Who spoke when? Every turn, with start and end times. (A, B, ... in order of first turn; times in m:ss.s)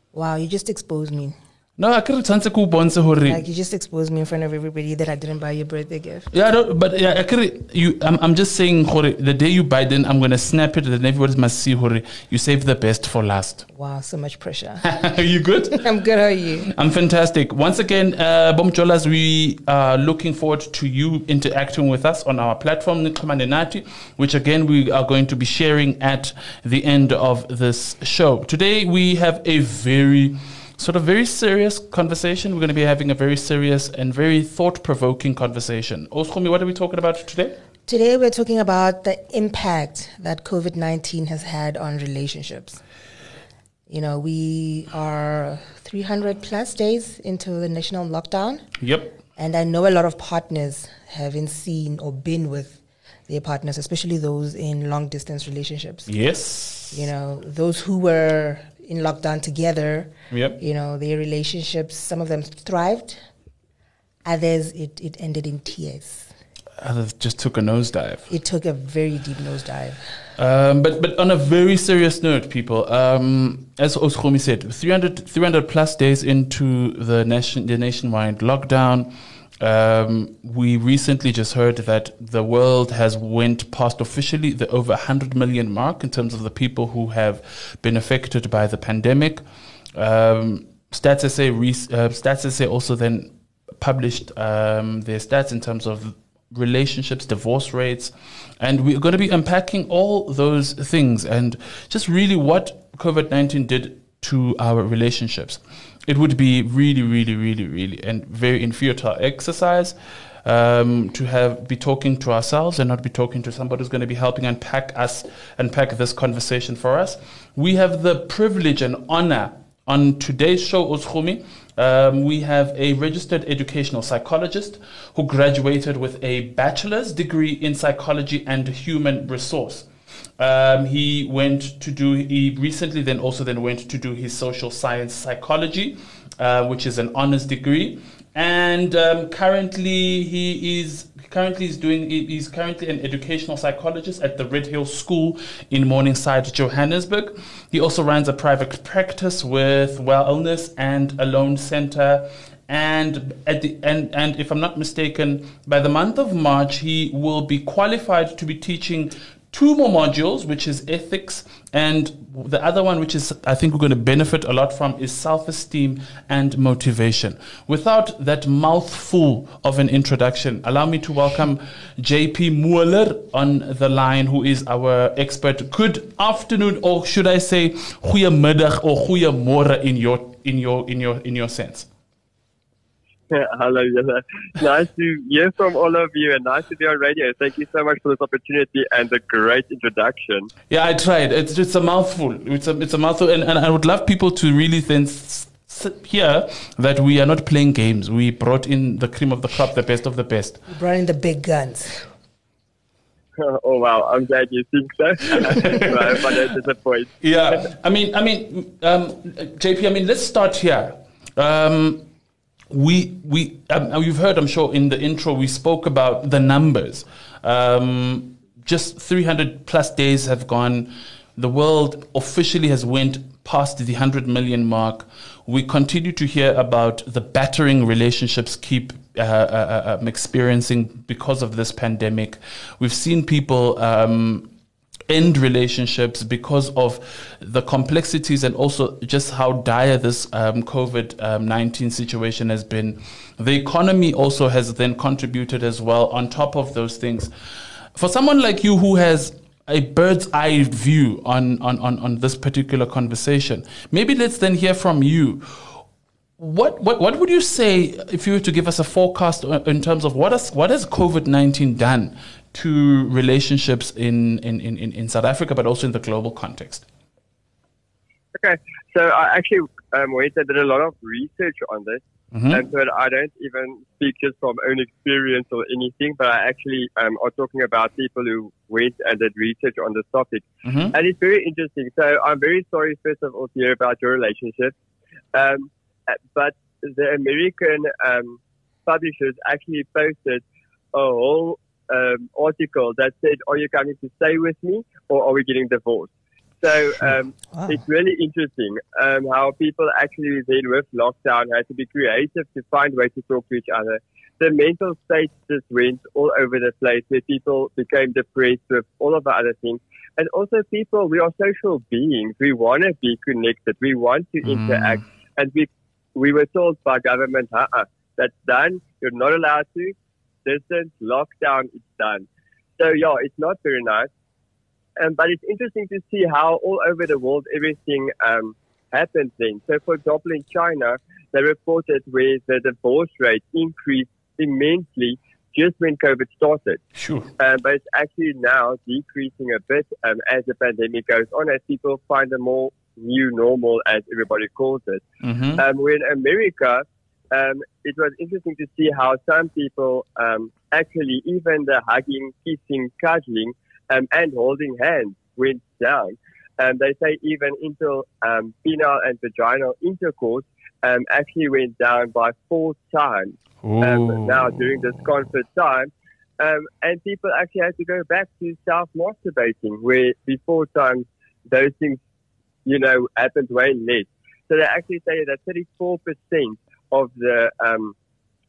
0:00.1-0:01.4 A
0:01.8-0:03.4 B
0:03.2-0:06.3 A
0:06.3-0:13.6 B
0:13.7-0:14.8 A
0:14.8-0:15.8 B
0:15.7-0:16.7 A
0:16.7-0:37.6 B
0:37.9-0:42.8 A
0:43.9-0:48.6 A
0:48.8-0:49.1 B
0:49.3-0:56.1 A
0:56.1-0:57.0 B
0:56.9-1:03.2 A
1:00.3-1:00.6 B
1:04.2-1:06.3 A
1:06.8-1:08.3 B
1:08.3-1:10.0 A
1:10.4-1:29.4 B
1:30.0-2:09.8 B
2:10.4-3:01.9 B
3:03.3-3:10.5 C
3:10.7-3:20.6 B
3:20.7-3:22.1 A
3:23.4-3:27.2 C
3:25.4-3:26.1 B
3:27.2-3:32.0 B
3:32.7-3:54.5 B
3:55.1-4:07.3 B
4:07.9-4:15.8 B
4:16.4-4:26.9 B
4:28.4-4:44.7 C
4:32.3-4:32.6 B
4:40.6-4:40.9 B
4:45.3-4:56.1 C
4:56.6-5:19.9 C
5:14.4-5:15.0 B
5:20.4-5:22.3 C
5:22.8-5:24.1 C
5:25.0-5:36.8 C
5:37.0-5:37.3 B
5:37.4-5:45.0 C
5:45.2-5:45.6 B
5:45.6-6:12.0 C
6:03.6-6:04.6 B
6:12.6-6:17.9 C